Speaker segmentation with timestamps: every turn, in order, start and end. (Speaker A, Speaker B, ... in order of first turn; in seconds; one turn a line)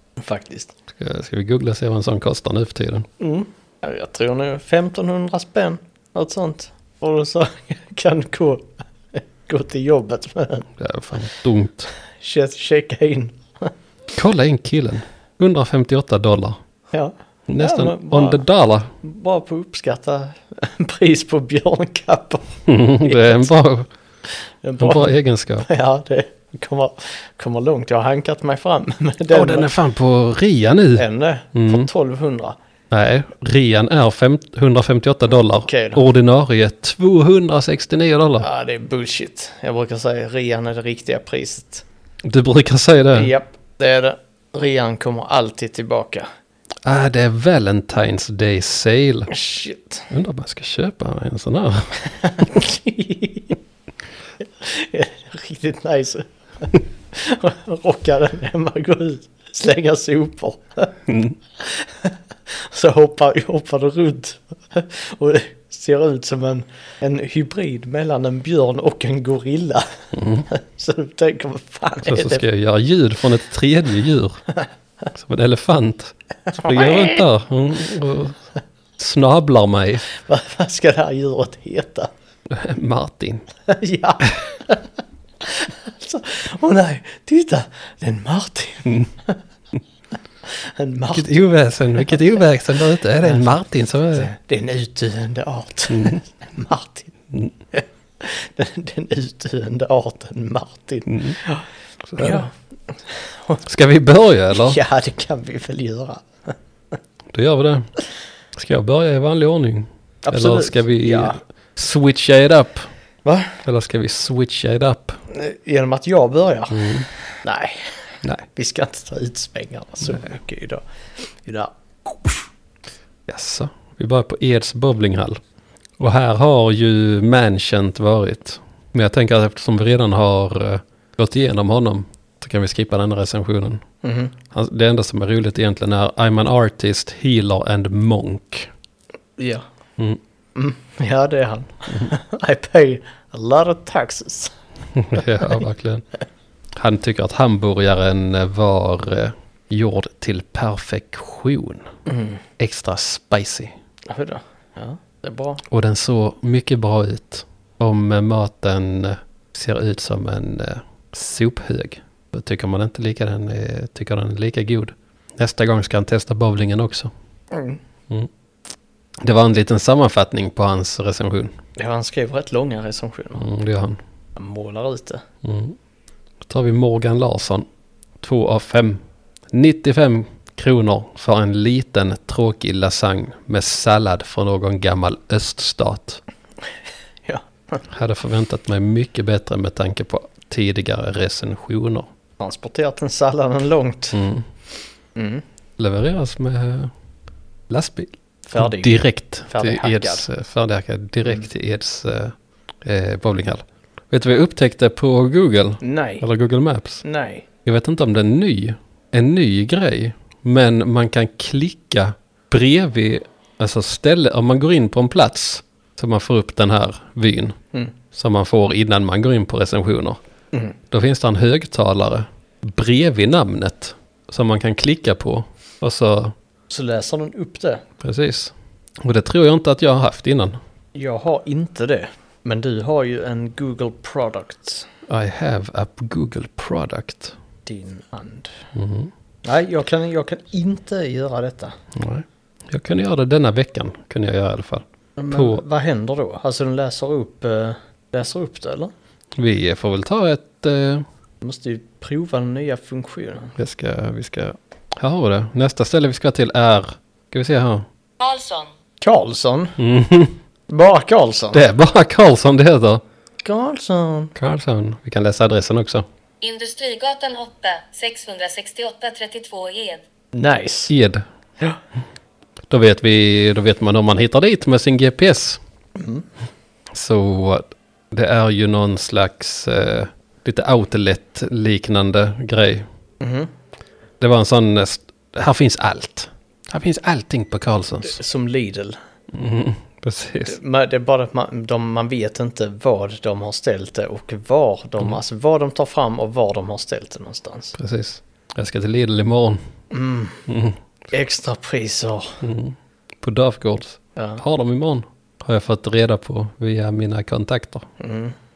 Speaker A: 0.2-0.7
Speaker B: 1.0-3.1
Speaker A: 3.2-10.7
Speaker B: 10.8-11.9
Speaker A: 12.2-13.7
Speaker B: 14.1-16.6
Speaker A: 16.9-18.4
Speaker B: 17.5-18.9
Speaker A: 19.0-23.5
Speaker B: 22.6-23.9
Speaker A: 24.6-29.7
Speaker B: 24.8-25.7
Speaker B: 29.3-31.9
Speaker A: 30.9-32.6
Speaker B: 32.9-38.5
Speaker A: 35.6-36.0
Speaker A: 38.4-41.8
Speaker B: 42.2-43.3
Speaker A: 43.1-46.3
Speaker B: 46.8-49.3
Speaker A: 49.3-50.1
Speaker B: 50.1-52.0
Speaker A: 52.1-53.6
Speaker A: 54.4-60.9
Speaker B: 61.1-61.4
Speaker A: 61.6-69.9
Speaker B: 70.1-70.5
Speaker A: 70.5-72.4
Speaker B: 72.0-74.4
Speaker B: 75.1-78.4
Speaker A: 76.5-77.2
Speaker B: 79.0-80.1
Speaker A: 80.1-82.1
Speaker B: 82.5-83.5
Speaker A: 83.7-84.9
Speaker A: 85.4-89.4
Speaker A: 90.4-91.4
Speaker B: 91.1-94.3
Speaker A: 94.1-97.1
Speaker B: 95.9-96.2
Speaker A: 97.7-101.7
Speaker B: 101.1-101.4
Speaker B: 102.1-102.5
Speaker A: 102.2-103.6
Speaker B: 103.6-104.8
Speaker A: 104.5-106.5
Speaker B: 107.3-107.9
Speaker B: 108.5-112.9
Speaker A: 110.2-111.4
Speaker A: 113.2-113.6
Speaker B: 113.6-115.2
Speaker A: 115.3-116.9
Speaker B: 116.7-117.1
Speaker A: 117.4-117.9
Speaker A: 118.5-122.5
Speaker B: 123.3-125.4
Speaker B: 126.0-133.8
Speaker A: 134.0-134.3
Speaker B: 134.5-138.7
Speaker A: 139.4-139.7
Speaker A: 140.5-144.5
Speaker B: 144.9-146.0
Speaker B: 146.8-151.9
Speaker A: 152.1-152.4
Speaker B: 152.6-153.7
Speaker A: 154.1-155.6
Speaker B: 155.7-167.1
Speaker A: 167.5-167.8
Speaker B: 169.2-171.5
Speaker A: 171.8-173.4
Speaker B: 173.4-174.0
Speaker A: 174.3-175.2
Speaker B: 175.4-175.8
Speaker B: 176.5-177.7
Speaker B: 178.2-179.0
Speaker B: 179.5-186.2
Speaker A: 187.2-187.8
Speaker B: 187.9-192.1
Speaker A: 192.4-194.2
Speaker B: 194.1-194.4
Speaker A: 195.1-195.4
Speaker B: 195.8-196.9
Speaker B: 197.7-207.0
Speaker A: 198.5-200.3
Speaker A: 205.8-206.2
Speaker A: 207.0-207.4
Speaker B: 207.6-217.6
Speaker B: 218.1-220.2
Speaker B: 220.9-226.3
Speaker A: 226.7-227.8
Speaker B: 228.0-230.6
Speaker A: 230.9-234.9
Speaker B: 235.1-237.3
Speaker A: 237.7-238.5
Speaker B: 238.7-239.1
Speaker A: 239.4-241.8
Speaker B: 241.9-245.6
Speaker A: 245.2-248.9
Speaker B: 249.4-251.1
Speaker A: 251.4-253.5
Speaker B: 253.6-257.9
Speaker C: 258.2-258.7
Speaker A: 259.0-259.8
Speaker B: 259.8-260.4
Speaker A: 260.7-261.6
Speaker B: 261.5-263.0
Speaker A: 263.4-264.3
Speaker B: 264.4-266.1
Speaker C: 266.4-270.0
Speaker A: 270.3-270.9
Speaker B: 270.9-271.2
Speaker B: 272.7-275.6
Speaker A: 276.0-276.2
Speaker B: 276.9-282.9
Speaker A: 283.2-283.5
Speaker B: 284.2-288.2
Speaker A: 288.0-289.0
Speaker B: 289.3-290.6
Speaker A: 290.5-297.7
Speaker B: 297.8-299.6
Speaker A: 299.9-300.4
Speaker B: 300.5-300.8
Speaker A: 301.1-302.4
Speaker B: 302.4-307.9
Speaker A: 308.0-308.3